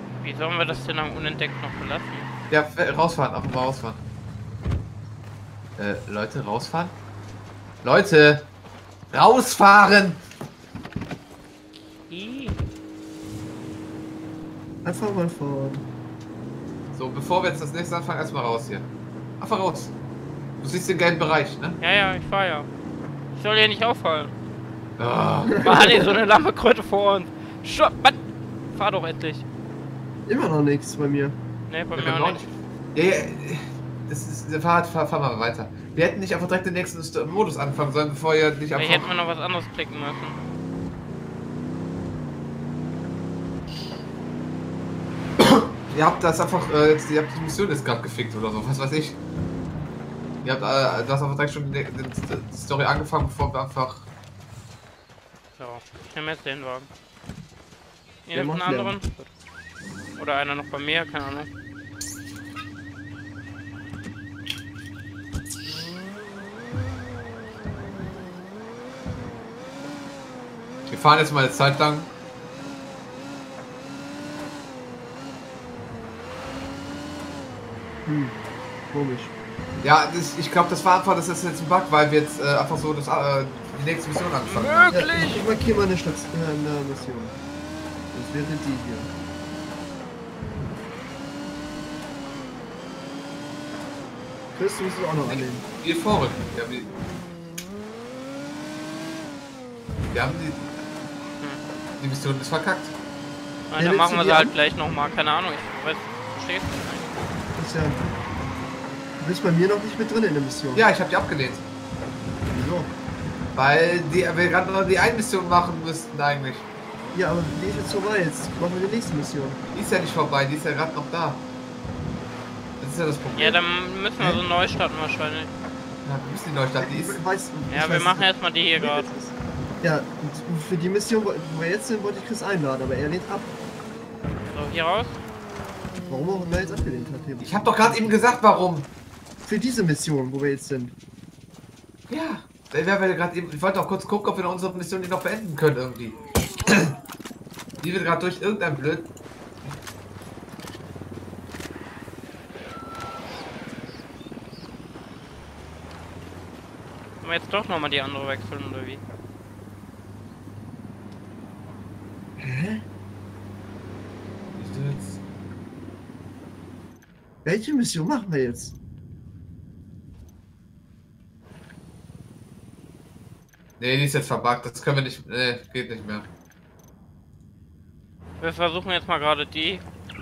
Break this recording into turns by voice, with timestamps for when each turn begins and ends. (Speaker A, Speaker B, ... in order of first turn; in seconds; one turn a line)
Speaker A: 0.2-2.3
Speaker B: 2.5-4.0
Speaker B: 5.8-6.9
Speaker B: 7.8-8.5
Speaker B: 9.1-10.2
Speaker A: 12.1-12.6
Speaker C: 14.8-15.8
Speaker B: 16.9-18.9
Speaker B: 19.4-19.9
Speaker B: 20.6-21.8
Speaker A: 21.8-22.7
Speaker A: 23.3-24.3
Speaker B: 25.0-25.6
Speaker C: 25.5-26.1
Speaker A: 25.6-28.2
Speaker A: 28.7-29.4
Speaker C: 30.3-31.4
Speaker A: 31.7-32.4
Speaker B: 31.9-39.1
Speaker A: 38.7-40.4
Speaker B: 45.4-49.2
Speaker B: 50.4-54.1
Speaker A: 55.6-56.9
Speaker A: 58.2-59.3
Speaker C: 58.3-59.0
Speaker A: 60.1-61.5
Speaker B: 70.9-72.1
Speaker C: 78.0-78.4
Speaker C: 78.9-79.3
Speaker B: 79.8-84.9
Speaker A: 84.4-85.4
Speaker C: 84.9-87.4
Speaker C: 88.1-89.1
Speaker C: 94.5-95.6
Speaker B: 95.2-96.9
Speaker B: 100.1-100.8
Speaker B: 102.0-102.9
Speaker A: 103.7-107.2
Speaker C: 103.8-104.5
Speaker C: 107.5-108.0
Speaker C: 109.2-110.8
Speaker B: 110.7-111.6
Speaker C: 112.5-112.9
Speaker B: 113.5-116.7
Speaker C: 117.1-119.6
Speaker B: 119.7-121.4
Speaker B: 122.8-123.6
Speaker A: 123.3-125.5
Speaker B: 126.0-127.2
Speaker C: 126.8-133.5
Speaker A: 127.7-129.1
Speaker A: 134.5-135.2
Speaker C: 136.1-138.2
Speaker B: 137.4-138.9
Speaker C: 139.4-140.9
Speaker B: 142.1-146.9
Speaker B: 147.8-149.1
Speaker A: 157.2-159.0
Speaker C: 162.4-162.8
Speaker B: 164.5-165.2
Speaker C: 167.4-168.7
Speaker B: 173.8-176.3
Speaker A: 178.4-179.8